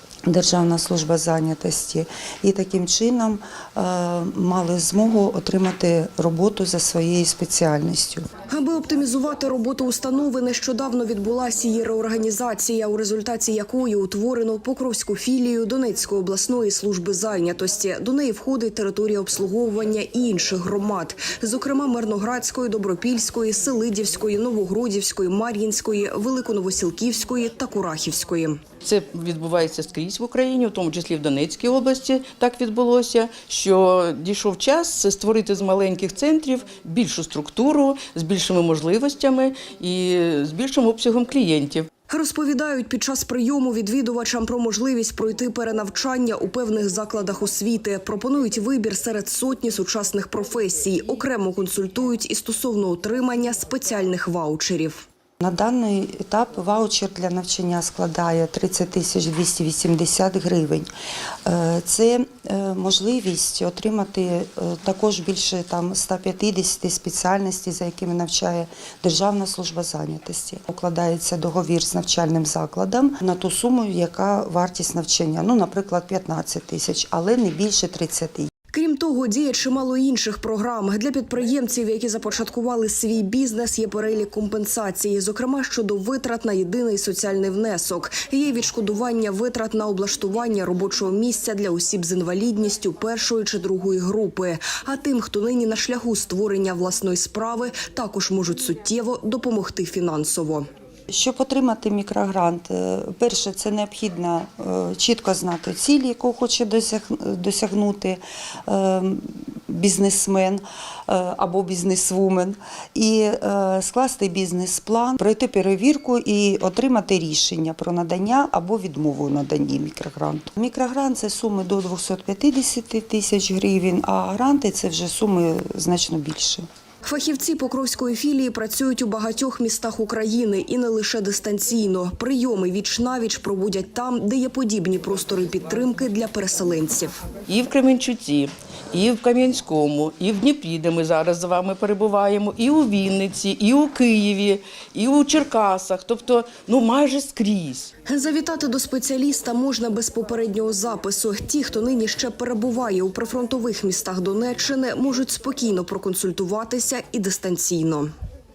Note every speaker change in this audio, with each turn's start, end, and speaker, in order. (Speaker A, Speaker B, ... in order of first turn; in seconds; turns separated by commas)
Speaker A: 0.3-8.2, Speaker B: 8.5-28.6, Speaker C: 28.8-41.9, Speaker B: 42.1-55.0, Speaker A: 55.4-60.9, Speaker A: 61.4-78.5, Speaker B: 78.7-100.7, Speaker A: 101.1-126.6, Speaker B: 127.0-137.1, Speaker C: 137.5-147.9, Speaker B: 148.1-158.1